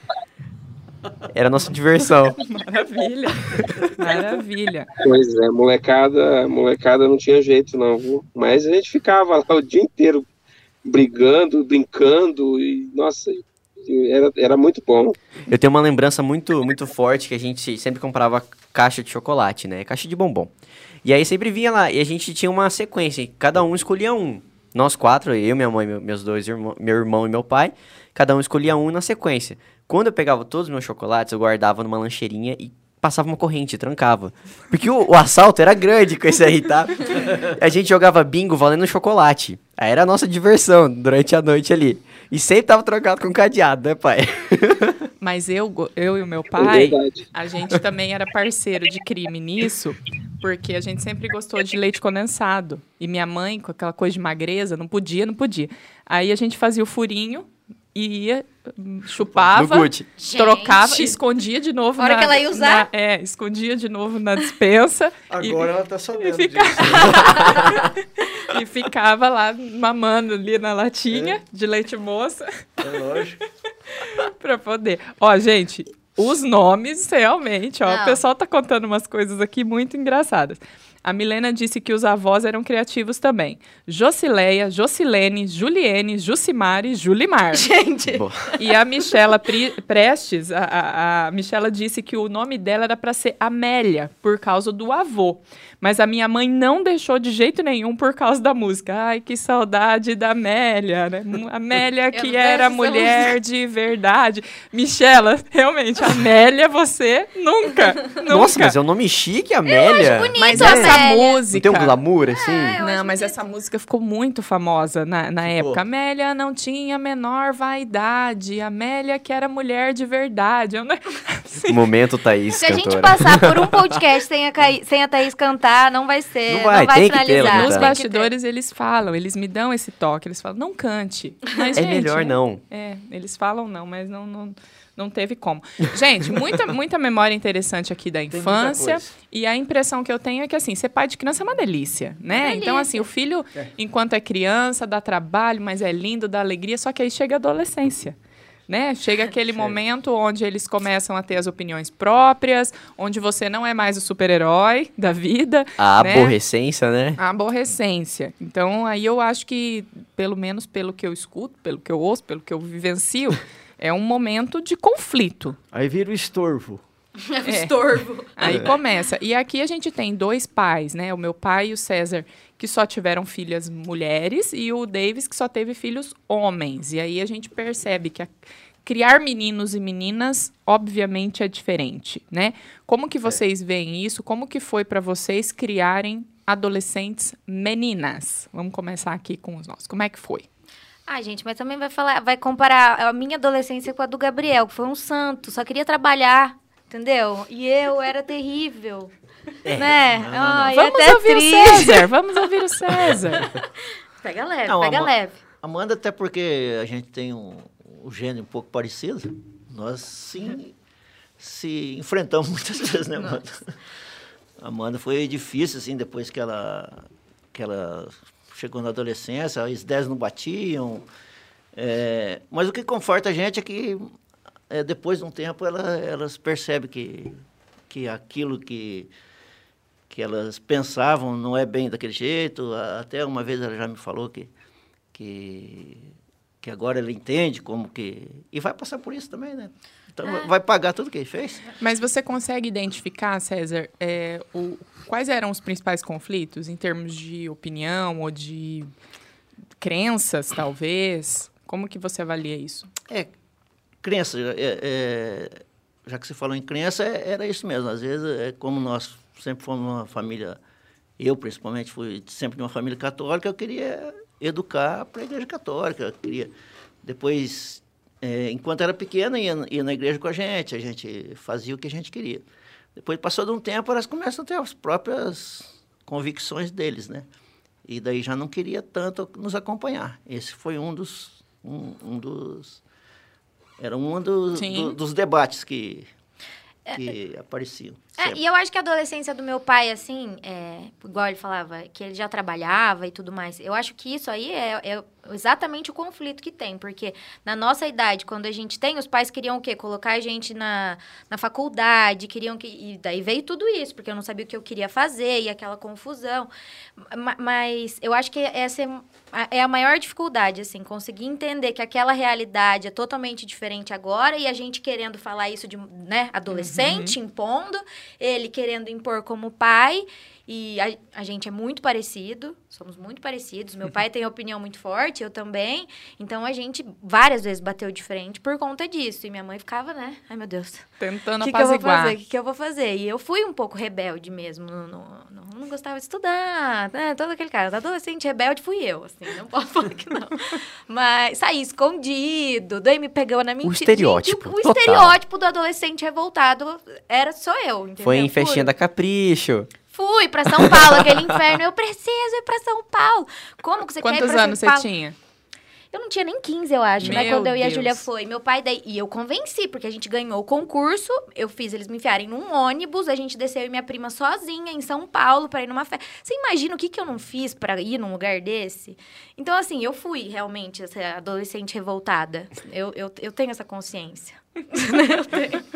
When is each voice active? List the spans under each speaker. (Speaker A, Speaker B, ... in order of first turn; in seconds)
Speaker A: 1.3-2.4, 15.5-20.5, 21.0-45.0, 59.5-60.1, 88.1-88.5, 108.3-112.8, 121.7-124.0, 126.5-127.9, 131.8-132.6, 155.8-157.2, 343.6-345.2, 348.0-349.7, 350.6-351.4
Speaker B: 2.4-4.9, 45.2-72.7, 73.9-87.7, 88.6-108.8, 110.4-112.0, 112.8-121.8, 127.4-148.2, 148.7-156.3, 157.2-165.6, 167.4-167.8, 168.3-178.3, 178.8-190.5, 200.7-203.5, 241.8-248.9, 249.8-252.9, 284.6-285.0, 316.5-317.2, 331.0-332.2, 354.0-355.2, 357.0-358.1
Speaker C: 5.0-10.2, 10.8-15.2, 46.6-47.2
Speaker D: 60.2-61.2, 62.0-62.9, 67.1-67.6, 77.8-78.2, 87.5-88.3, 102.1-103.3, 109.7-111.4, 112.3-113.5, 122.5-128.3, 142.3-143.1, 167.2-168.7, 191.1-199.1, 199.7-202.1, 203.4-203.7, 204.2-205.4, 240.2-240.5, 288.2-330.9, 331.4-348.8, 349.9-354.9, 355.9-375.6
Speaker E: 65.3-67.6, 71.1-71.4, 72.8-73.4, 115.4-115.8, 138.3-139.1, 165.7-166.8
Speaker F: 199.7-200.8, 204.7-210.8, 211.4-213.8, 214.6-221.1, 221.8-224.1, 224.7-227.4, 227.9-229.1, 230.1-234.5, 235.1-236.1, 236.6-241.6, 254.0-260.6, 261.2-266.5, 267.0-272.4, 273.0-277.3, 277.9-282.8, 283.8-286.1, 286.9-288.4